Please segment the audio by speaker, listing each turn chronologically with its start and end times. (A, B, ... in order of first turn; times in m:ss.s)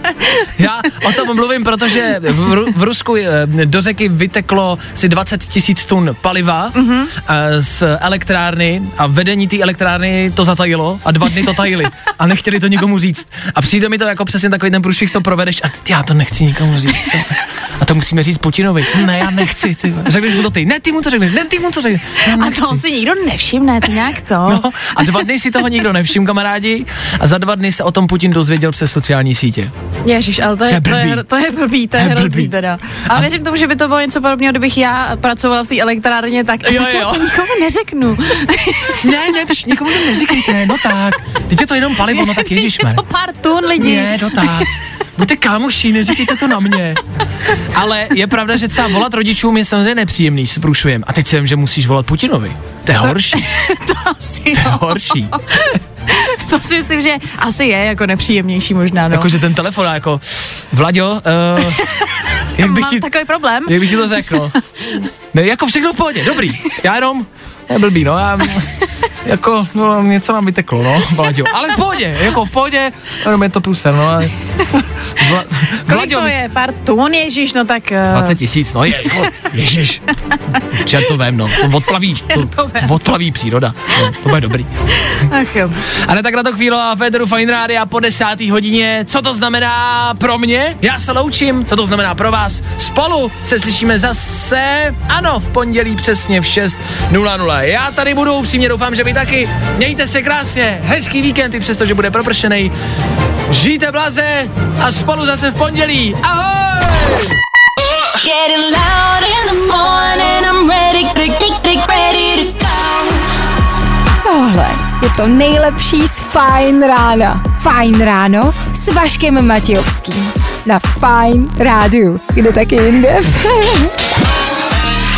0:00.5-0:22.8 A
0:06.7-0:07.1 B
0:22.2-0:25.2 B
0:24.4-0:29.7 A
0:30.0-0:40.7 B
0:30.7-0:31.2 A
0:32.0-0:32.5 A
0:36.6-0:37.4 A
0:39.0-0:43.0 A
0:42.1-0:44.7 B
0:43.8-0:47.0 A
0:47.7-0:53.4 A
0:53.0-0:59.4 B
0:54.5-0:55.3 A
0:59.1-1:01.8 A
1:01.7-1:05.0 B
1:02.6-1:03.0 A
1:03.6-1:04.5 A
1:05.3-1:08.7 A
1:09.2-1:16.4 A
1:15.9-1:18.4 B
1:18.1-1:20.1 A
1:20.6-1:24.7 A
1:21.9-1:22.9 B
1:25.0-1:25.8 B
1:25.9-1:42.7 A
1:43.5-1:47.4 A
1:48.2-1:53.3 C
1:54.2-2:03.9 D